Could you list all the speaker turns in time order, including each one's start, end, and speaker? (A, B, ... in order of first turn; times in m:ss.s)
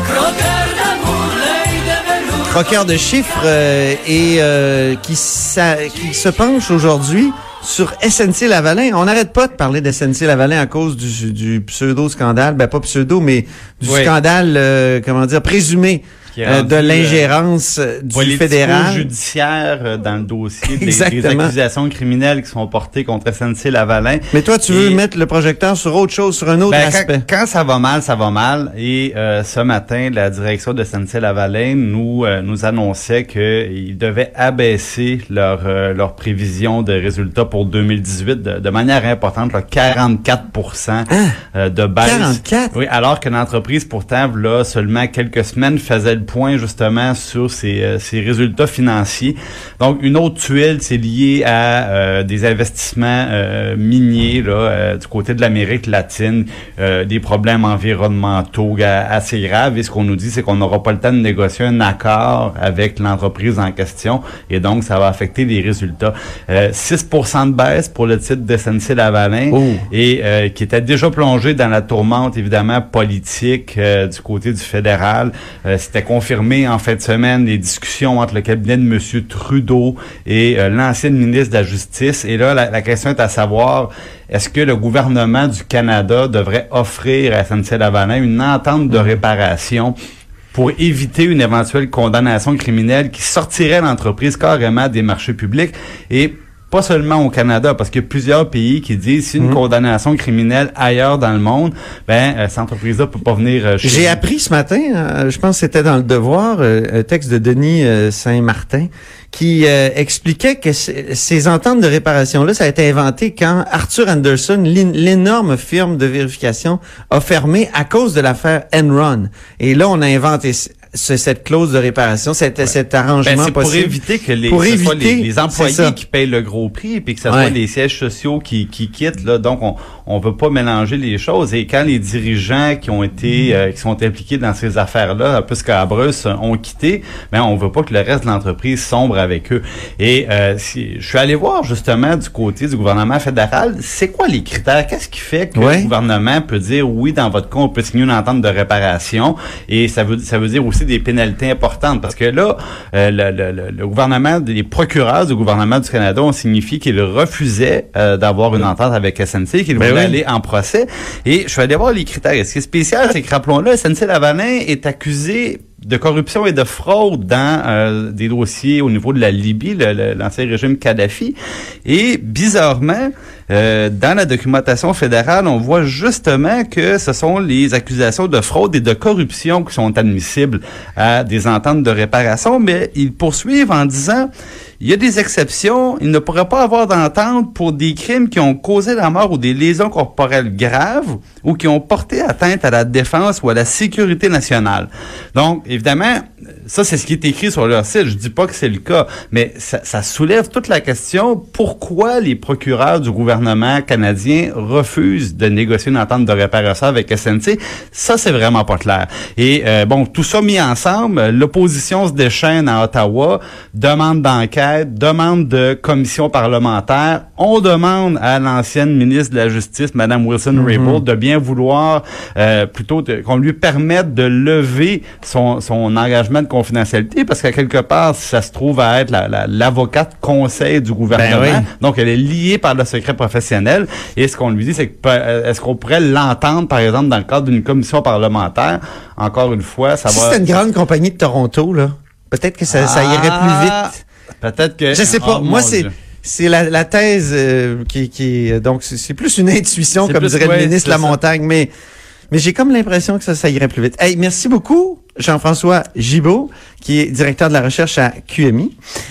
0:02.4-0:19.1 A
0:13.8-0:14.1 B
0:16.3-0:17.3 B
0:18.1-0:25.0 B
0:20.7-0:21.5 A
0:24.3-0:27.2 A
0:26.7-1:29.9 B
0:41.1-0:41.4 A
0:42.0-0:42.8 A
1:09.5-1:09.8 A
1:30.5-1:44.2 B
1:43.8-2:06.0 A
2:02.6-2:51.4 B
2:07.3-2:07.6 A
2:25.6-2:25.9 A
2:39.8-2:40.2 A
2:51.9-3:04.3 B
3:04.8-4:00.4 B
3:40.5-3:41.0 A
3:51.1-3:51.7 A
4:00.1-4:04.0 A
4:02.7-4:05.9 B
4:04.9-4:11.7 A
4:10.0-4:11.2 B
4:12.3-4:18.7 A